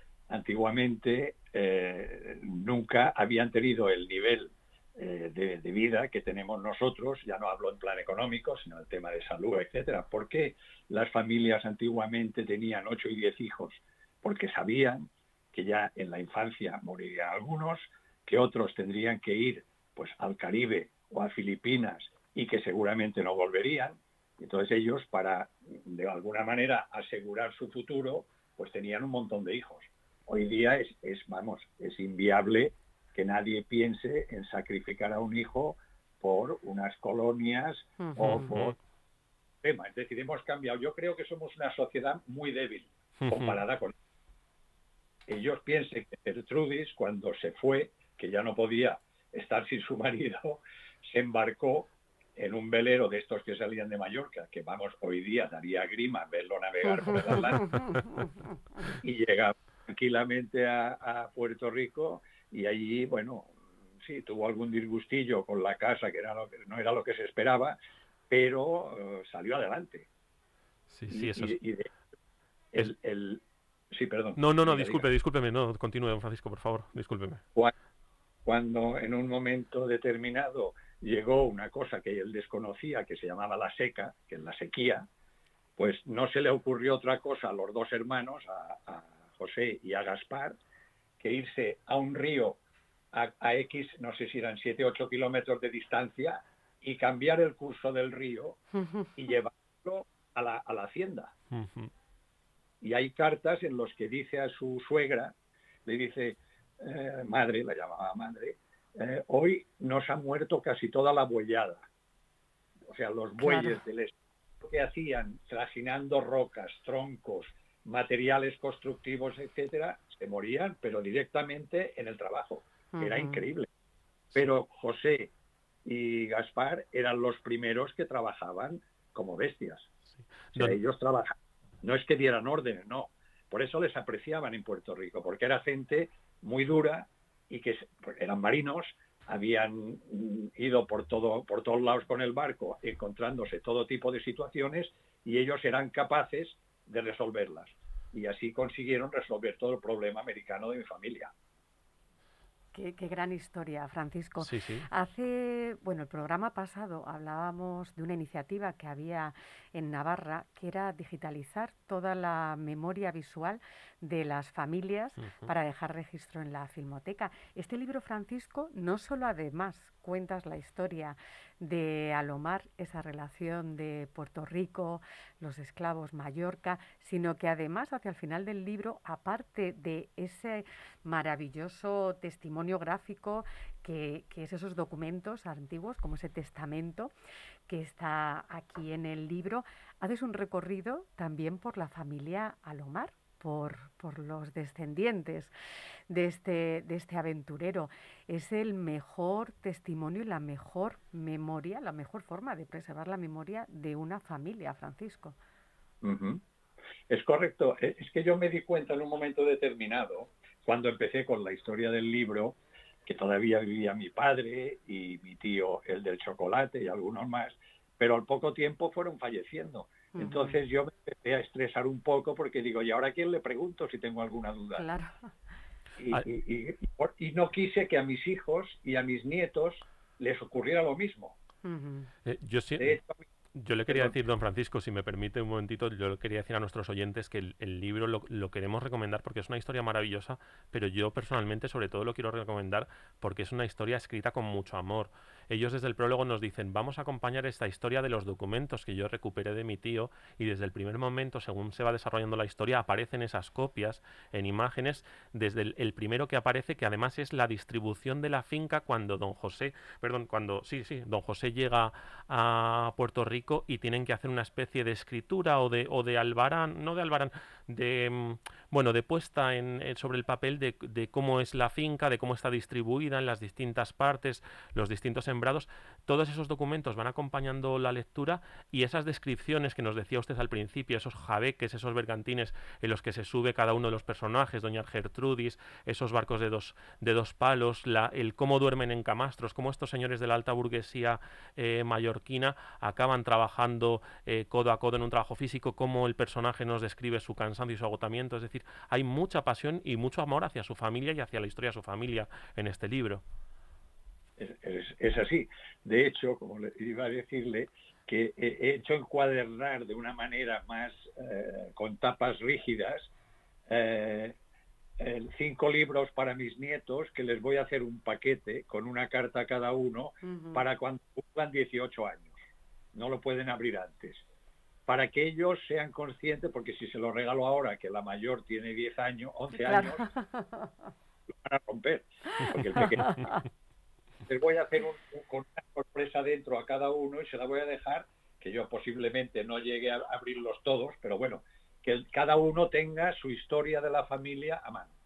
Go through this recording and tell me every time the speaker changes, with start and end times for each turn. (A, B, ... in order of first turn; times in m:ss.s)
0:00.3-0:38.8 A
0:38.0-0:38.5 B
0:38.2-0:38.7 C
0:39.6-0:43.9 A
0:43.2-0:43.6 C
0:45.3-0:57.9 A
0:56.8-0:58.3 B
0:58.9-1:07.8 A
1:08.3-1:10.1 A
1:10.9-1:11.6 C
1:11.1-1:11.9 A
1:12.7-1:15.0 A
1:14.4-1:17.4 C
1:18.4-1:25.1 A
1:25.8-1:30.6 A
1:31.2-1:32.6 A
1:33.1-1:38.6 A
1:38.7-1:39.1 B
1:39.2-1:41.3 A
1:41.5-1:41.9 C
1:42.8-1:45.3 A
1:45.8-1:51.8 A
1:52.9-2:03.7 A
1:53.4-1:53.8 B
2:02.9-2:03.4 B
2:04.3-2:05.3 A
2:05.8-2:09.9 A
2:10.5-2:31.3 A
2:32.7-3:07.1 B
2:34.4-2:34.8 C
2:45.2-2:45.5 C
3:07.7-3:15.5 B
3:16.1-3:25.4 B
3:26.0-3:26.4 A
3:27.1-3:44.8 A
3:40.1-3:40.6 B
3:44.8-3:45.3 B
3:46.0-3:51.4 A
3:51.6-3:52.1 B
3:52.2-3:53.0 C
3:52.8-3:53.3 A
3:53.5-5:03.2 C
3:53.9-3:54.1 A
5:04.4-5:13.1 A
5:13.7-5:14.4 A
5:15.0-5:22.4 A
5:20.2-5:20.6 B
5:22.9-5:24.2 A
5:24.9-5:30.0 A
5:29.5-5:30.9 B
5:31.3-5:33.4 A
5:32.8-5:33.4 B
5:34.2-5:44.9 A